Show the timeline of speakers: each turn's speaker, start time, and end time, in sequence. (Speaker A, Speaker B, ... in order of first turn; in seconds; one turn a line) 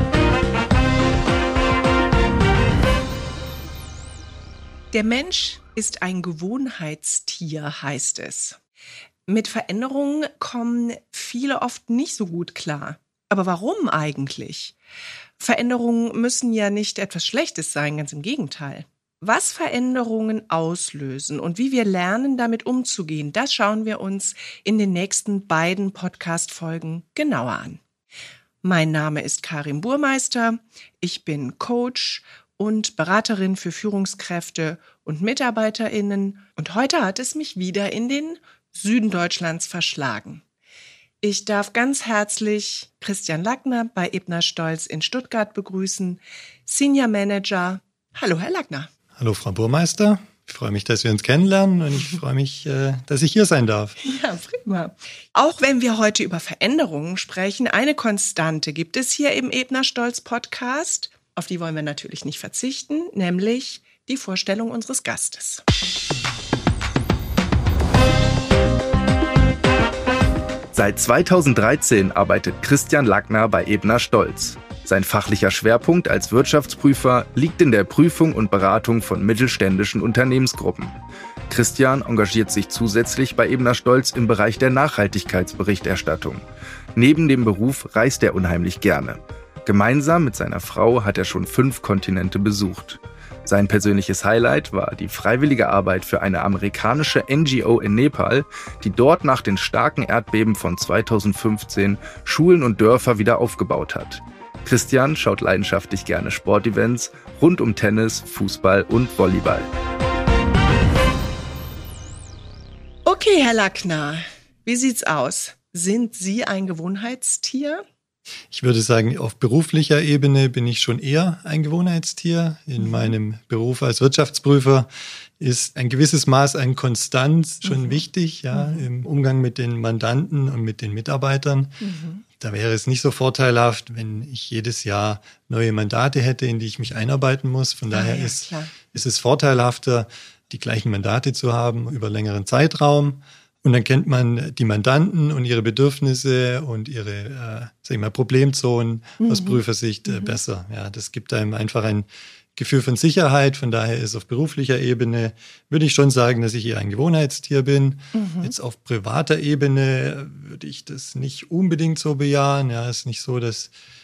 Speaker A: 4.9-8.6
Speaker A: 9.3-14.8
Speaker A: 15.4-27.8
Speaker A: 28.6-40.4
Speaker A: 41.2-48.9
Speaker B: 49.2-54.0
Speaker A: 54.0-65.6
Speaker C: 70.7-80.9
Speaker C: 81.5-109.7
Speaker A: 113.0-117.8
Speaker B: 118.5-131.8
Speaker A: 122.8-123.1
Speaker A: 127.6-128.0
Speaker A: 128.5-128.9
Speaker A: 131.8-132.2
Speaker B: 132.4-163.7
Speaker A: 137.9-138.7
Speaker A: 149.2-150.4
Speaker A: 158.1-158.5